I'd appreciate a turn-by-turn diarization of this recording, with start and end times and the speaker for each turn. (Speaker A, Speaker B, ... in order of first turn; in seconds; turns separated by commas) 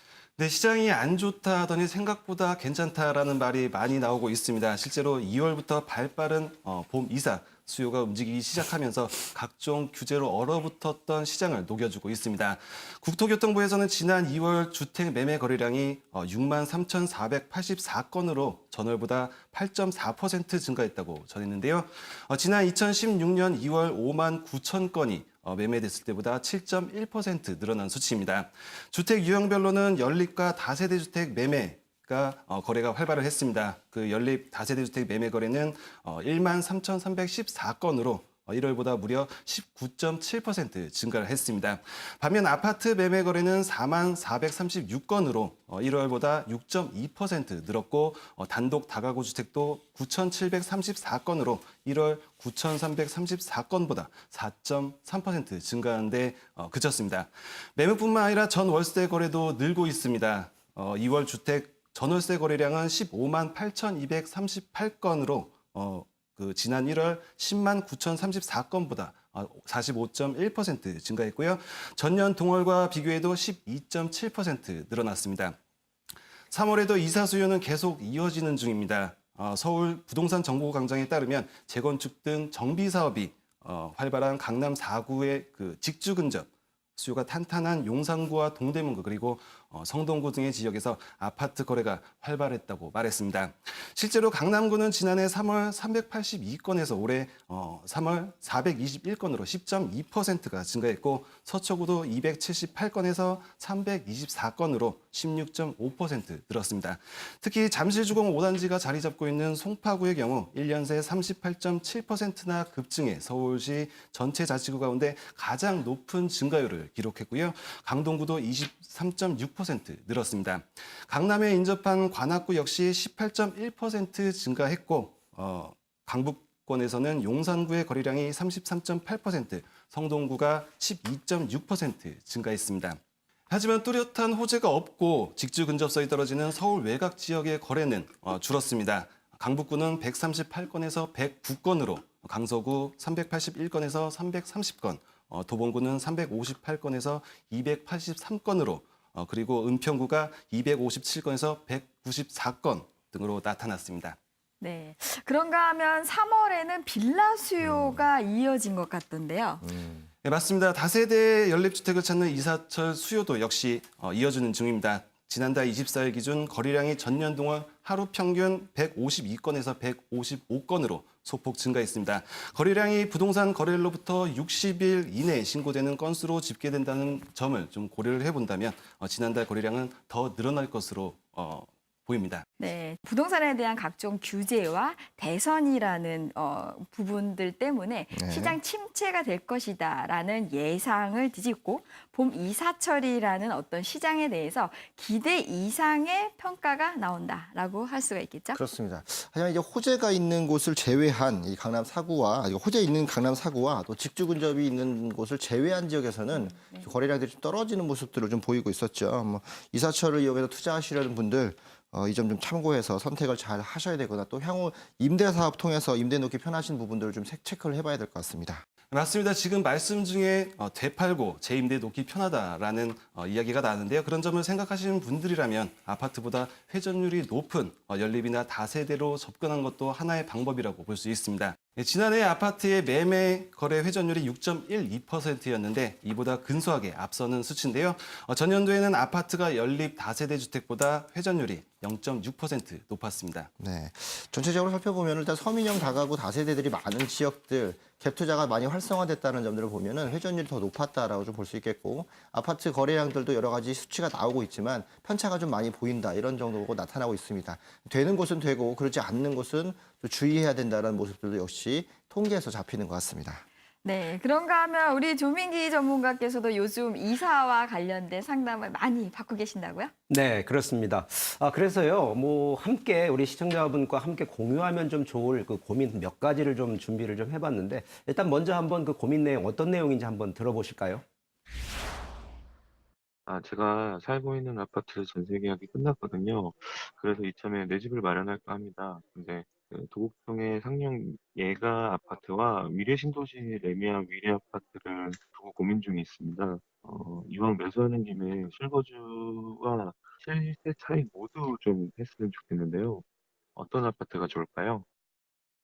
Speaker A: 0.4-75.6, Speaker A: 76.5-154.2, Speaker B: 154.6-159.7, Speaker C: 157.6-158.0, Speaker C: 159.6-160.1, Speaker A: 160.2-182.5, Speaker B: 182.6-198.6, Speaker C: 188.1-188.6, Speaker C: 198.5-218.6, Speaker B: 206.3-206.9, Speaker A: 218.9-243.5, Speaker C: 243.6-263.4, Speaker B: 263.8-269.9, Speaker D: 270.1-281.0, Speaker E: 283.3-303.1, Speaker E: 303.6-304.9